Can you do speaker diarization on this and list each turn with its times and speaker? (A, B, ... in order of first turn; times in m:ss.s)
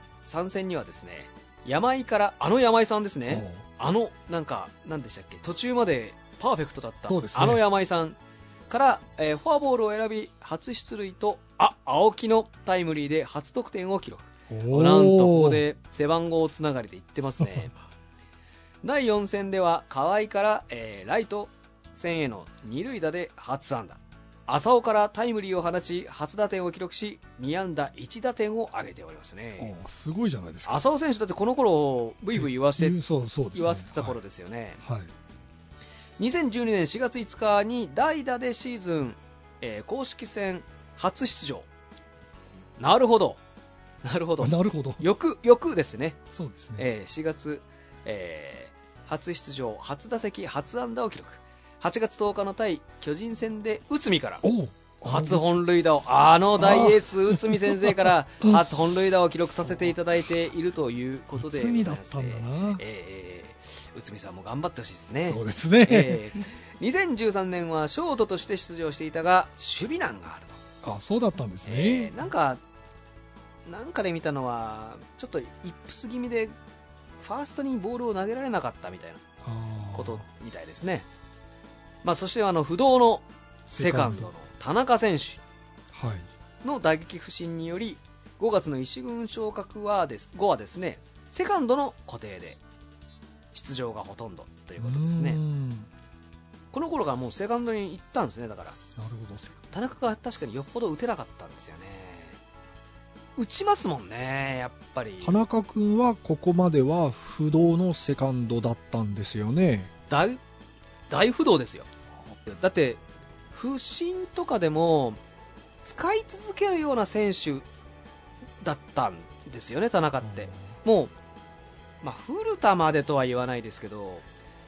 0:00.2-0:08.2 A
0:03.3-0:03.6 B
0:07.1-0:07.6 B
0:08.7-0:17.7 A
0:14.5-0:15.6 B
0:18.8-0:29.7 A
0:29.6-0:30.8 B
0:30.7-0:33.0 A
0:32.3-0:34.2 B
0:33.5-0:34.8 A
0:34.8-0:35.1 B
0:36.2-0:41.7 A
0:42.8-0:43.4 A
0:44.0-0:46.2 A
0:44.4-0:45.0 B
0:46.3-0:46.9 B
0:46.8-0:54.4 A
0:54.4-0:55.6 B
0:55.0-1:10.6 A
0:56.6-0:58.6 B
0:59.6-0:59.9 B
1:01.4-1:02.8 B
1:05.2-1:06.4 B
1:10.8-1:12.2 B
1:11.7-1:12.6 A
1:13.7-1:16.5 A
1:17.2-1:19.2 A
1:19.4-1:20.2 B
1:19.9-1:21.1 A
1:22.0-1:25.4 A
1:23.7-1:24.3 B
1:25.9-1:26.3 B
1:26.6-1:32.6 A
1:33.5-1:35.4 A
1:34.8-1:35.9 B
1:36.7-1:38.8 A
1:39.0-1:39.6 B
1:39.7-1:42.4 A
1:43.4-1:45.4 A
1:45.2-1:49.9 C
1:50.1-1:50.4 A
1:51.1-1:51.9 A
1:52.5-1:53.0 A
1:53.5-1:55.2 A
1:55.8-1:57.6 A
1:58.6-2:01.1 A
2:00.2-2:00.7 B
2:02.0-2:04.2 A